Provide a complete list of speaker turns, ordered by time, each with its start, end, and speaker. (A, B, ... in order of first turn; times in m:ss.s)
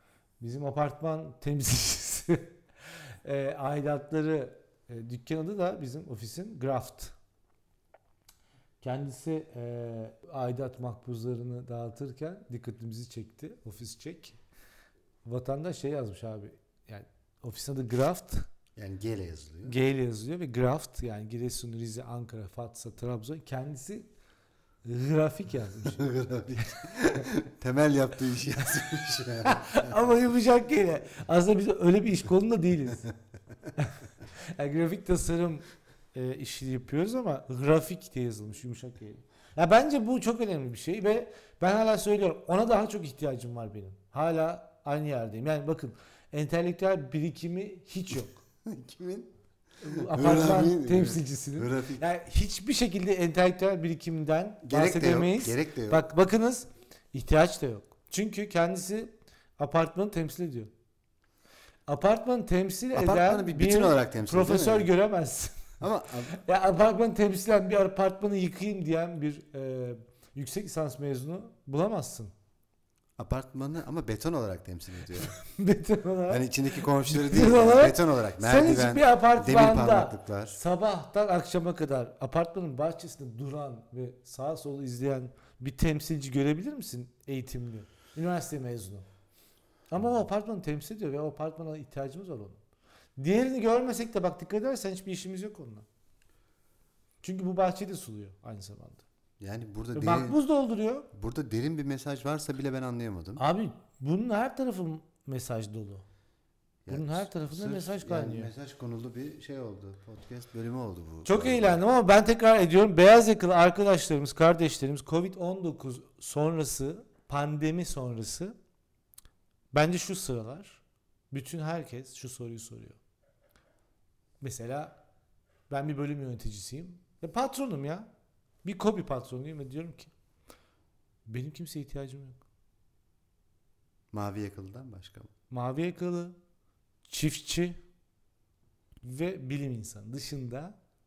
0:00.4-0:02.5 A
0:03.2-0:07.1 A
0:08.8-0:14.4 A
0:15.2-0:18.4 A
0:18.8-0:19.7 B
0:19.6-0:24.1 A
0:24.8-0:26.8 A
0:25.8-0:29.9 B
0:29.4-0:33.1 A
0:33.8-0:48.4 A
0:48.6-0:49.3 B
0:49.8-1:00.7 A
0:49.9-0:52.0 B
0:54.6-0:56.0 B
1:01.9-1:05.8 A
1:02.9-1:04.9 B
1:05.8-1:06.4 B
1:06.3-1:12.3 A
1:13.2-1:15.4 B
1:15.2-1:29.0 A
1:16.3-1:20.6 B
1:29.9-1:32.6 A
1:33.2-1:35.8 A
1:37.2-1:39.0 A
1:39.4-1:40.4 B
1:39.9-1:41.1 A
1:41.1-1:43.4 B
1:43.4-1:46.0 A
1:46.8-1:51.8 B
1:46.9-1:48.5 A
1:51.2-1:58.5 A
1:59.7-2:03.0 A
2:04.4-2:05.0 A
2:05.7-2:08.1 A
2:08.6-2:10.1 A
2:11.2-2:12.4 A
2:14.1-2:15.3 B
2:15.5-2:16.3 A
2:17.1-2:17.8 A
2:19.0-2:20.8 A